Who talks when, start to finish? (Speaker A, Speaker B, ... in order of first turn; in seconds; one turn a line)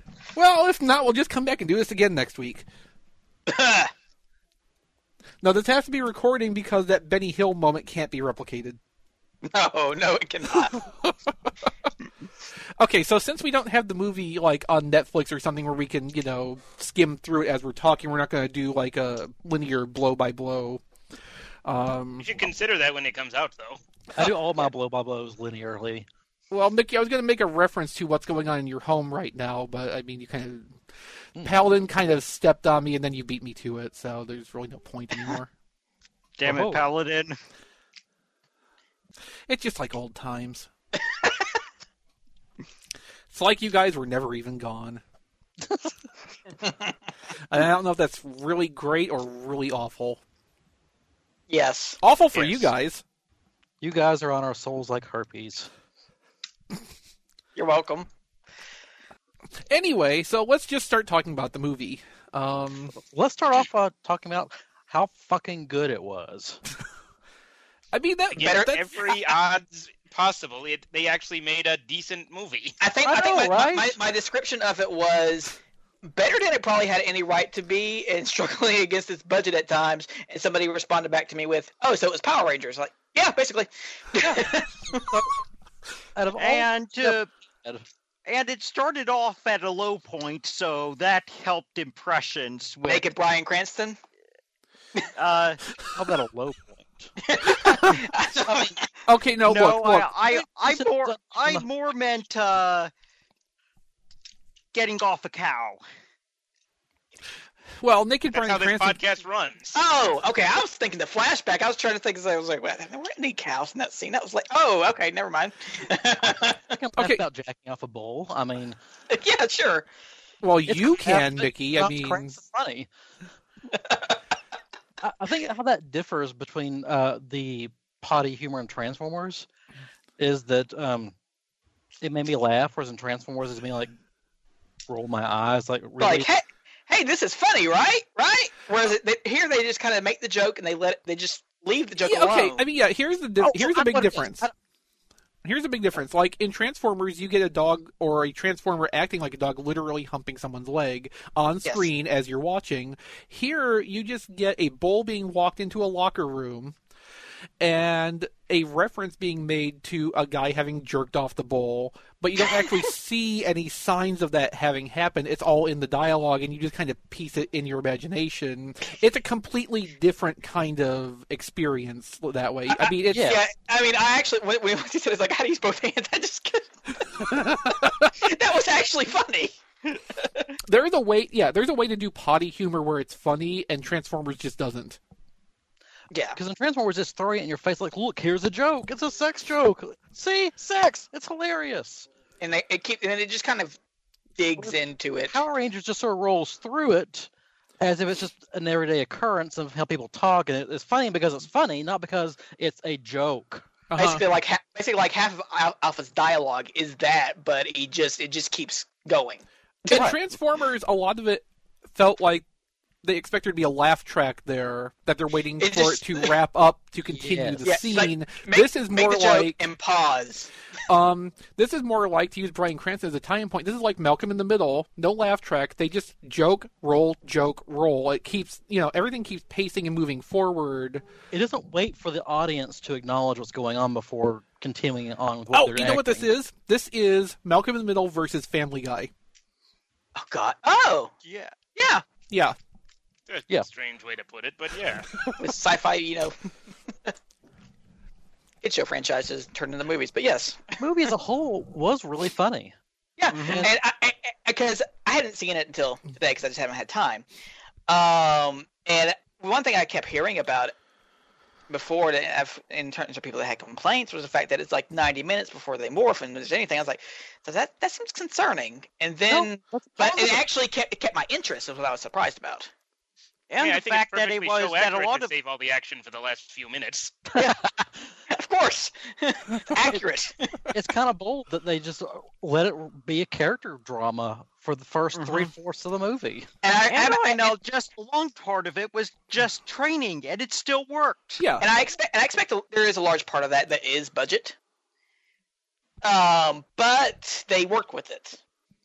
Speaker A: 0.3-2.7
Speaker B: 3.5-3.9
Speaker A: 5.4-8.8
Speaker B: 9.5-10.8
Speaker A: 12.8-20.8
Speaker A: 21.6-22.5
Speaker C: 22.2-23.8
Speaker D: 24.1-26.1
Speaker A: 26.5-30.8
Speaker A: 31.4-35.5
Speaker E: 36.4-37.4
Speaker D: 36.4-36.8
Speaker A: 39.5-40.7
Speaker A: 43.3-45.0
Speaker B: 46.6-46.9
Speaker A: 47.5-50.2
Speaker B: 51.5-52.0
Speaker A: 52.0-53.0
Speaker C: 52.3-52.7
Speaker D: 53.8-55.7
Speaker B: 57.5-58.1
Speaker A: 59.7-62.9
Speaker D: 63.0-66.6
Speaker A: 67.9-69.0
Speaker C: 68.3-72.8
Speaker B: 68.4-68.8
Speaker B: 72.8-85.0
Speaker D: 73.0-74.0
Speaker D: 84.2-85.3
Speaker D: 86.2-87.8
Speaker E: 86.3-87.3
Speaker E: 88.2-93.0
Speaker B: 92.8-94.0
Speaker E: 95.2-95.6
Speaker D: 95.9-97.1
Speaker B: 97.2-98.8
Speaker A: 97.5-98.0
Speaker D: 98.5-98.7
Speaker A: 99.0-100.1
Speaker E: 99.5-102.9
Speaker D: 100.3-101.6
Speaker E: 104.7-105.8
Speaker A: 107.8-109.0
Speaker C: 108.3-109.8
Speaker B: 109.7-116.6
Speaker D: 116.7-118.8
Speaker A: 117.0-117.2
Speaker B: 119.1-119.9
Speaker A: 120.4-122.4
Speaker D: 120.7-122.9
Speaker B: 123.7-124.2
Speaker D: 125.0-129.5
Speaker D: 130.2-131.1
Speaker D: 132.0-133.9
Speaker D: 134.9-136.3
Speaker B: 136.0-142.6
Speaker A: 142.0-144.5
Speaker D: 143.4-144.5
Speaker A: 145.4-156.8
Speaker A: 157.6-173.4
Speaker B: 172.7-179.6
Speaker D: 173.1-173.4
Speaker A: 177.3-177.8
Speaker B: 180.1-180.5
Speaker A: 180.7-185.0
Speaker B: 186.1-186.4
Speaker D: 186.3-192.1
Speaker B: 192.4-193.8
Speaker B: 194.4-195.4
Speaker D: 195.3-197.3
Speaker D: 197.8-203.7
Speaker A: 203.9-204.2
Speaker B: 203.9-210.1
Speaker A: 209.9-212.4
Speaker A: 213.0-219.6
Speaker B: 215.6-216.3
Speaker D: 217.1-217.6
Speaker B: 217.6-220.5
Speaker A: 220.9-231.0
Speaker D: 231.3-236.3
Speaker A: 235.5-239.1
Speaker B: 240.2-241.1
Speaker E: 241.2-241.5
Speaker B: 241.8-242.0
Speaker A: 242.3-242.6
Speaker C: 243.3-245.2
Speaker B: 245.3-246.3
Speaker B: 248.6-250.6
Speaker D: 250.8-252.7
Speaker B: 253.2-257.2
Speaker E: 253.3-253.6
Speaker D: 253.4-253.7
Speaker B: 257.9-260.7
Speaker B: 261.7-272.7
Speaker D: 269.3-270.4
Speaker E: 273.5-275.3
Speaker C: 273.6-277.2
Speaker B: 277.3-280.6
Speaker D: 280.7-286.5
Speaker E: 285.1-285.5
Speaker B: 286.6-287.5
Speaker E: 286.8-291.4
Speaker A: 291.4-291.7
Speaker B: 291.6-294.6
Speaker B: 296.0-298.4